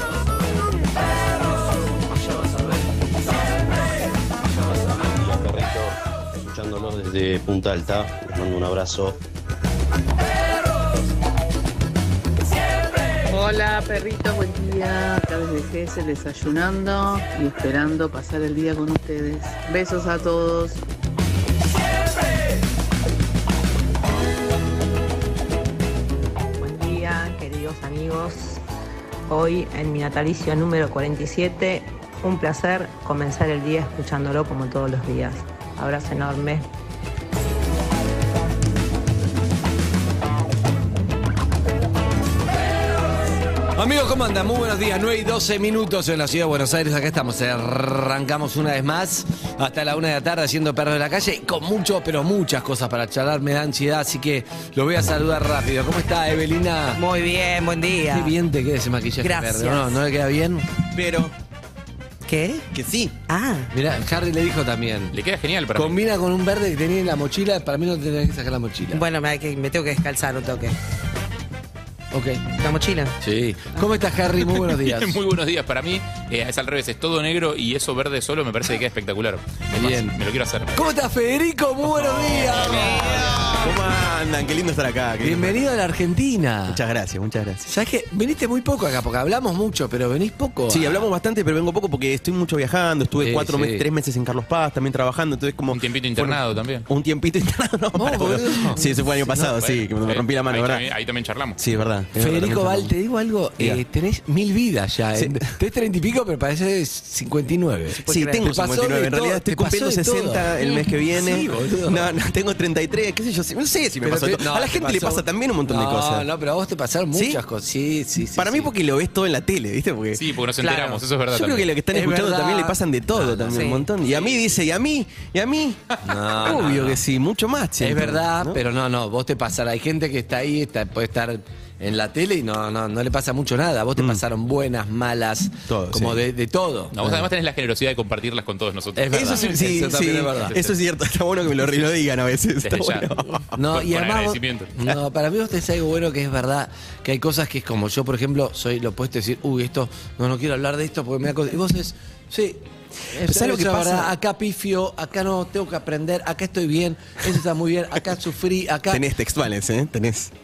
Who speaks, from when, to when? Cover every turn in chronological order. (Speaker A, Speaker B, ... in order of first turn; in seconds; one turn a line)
Speaker A: 4.7-9.2
Speaker B: 13.3-20.8
Speaker C: 26.6-28.6
Speaker C: 29.3-36.6
Speaker D: 43.8-57.0
Speaker E: 56.9-58.3
Speaker D: 58.1-60.7
Speaker E: 59.2-60.0
Speaker F: 60.9-61.3
Speaker E: 62.2-62.6
Speaker F: 62.7-63.1
Speaker E: 63.3-63.7
Speaker D: 63.7-65.1
Speaker G: 65.1-66.0
Speaker D: 65.7-69.0
Speaker E: 68.9-70.8
Speaker D: 72.1-72.5
Speaker E: 72.6-73.1
Speaker D: 73.2-75.2
Speaker G: 74.5-80.8
Speaker D: 79.7-80.2
Speaker D: 80.7-83.0
Speaker G: 82.1-83.0
Speaker E: 82.7-83.4
Speaker F: 82.8-85.6
Speaker D: 85.2-86.8
Speaker F: 86.7-87.7
Speaker D: 87.7-91.0
Speaker F: 90.7-100.8
Speaker D: 93.2-93.8
Speaker G: 95.7-96.8
Speaker D: 97.9-99.6
Speaker G: 99.5-101.7
Speaker F: 101.6-102.9
Speaker D: 102.1-110.5
Speaker F: 105.2-105.5
Speaker E: 108.0-108.4
Speaker F: 108.0-116.3
Speaker D: 111.1-112.1
Speaker D: 114.0-118.7
Speaker F: 117.1-117.4
Speaker F: 118.4-120.2
Speaker G: 120.2-121.7
Speaker E: 120.6-121.0
Speaker F: 121.3-128.6
Speaker D: 121.9-123.7
Speaker E: 123.5-123.8
Speaker D: 126.0-127.0
Speaker D: 127.8-137.0
Speaker F: 134.0-134.2
Speaker F: 135.7-136.2
Speaker G: 136.9-139.3
Speaker D: 138.9-140.6
Speaker F: 139.1-143.5
Speaker G: 140.5-140.7
Speaker G: 142.6-143.1
Speaker D: 143.5-159.0
Speaker G: 143.6-144.7
Speaker F: 153.1-154.2
Speaker F: 158.9-160.3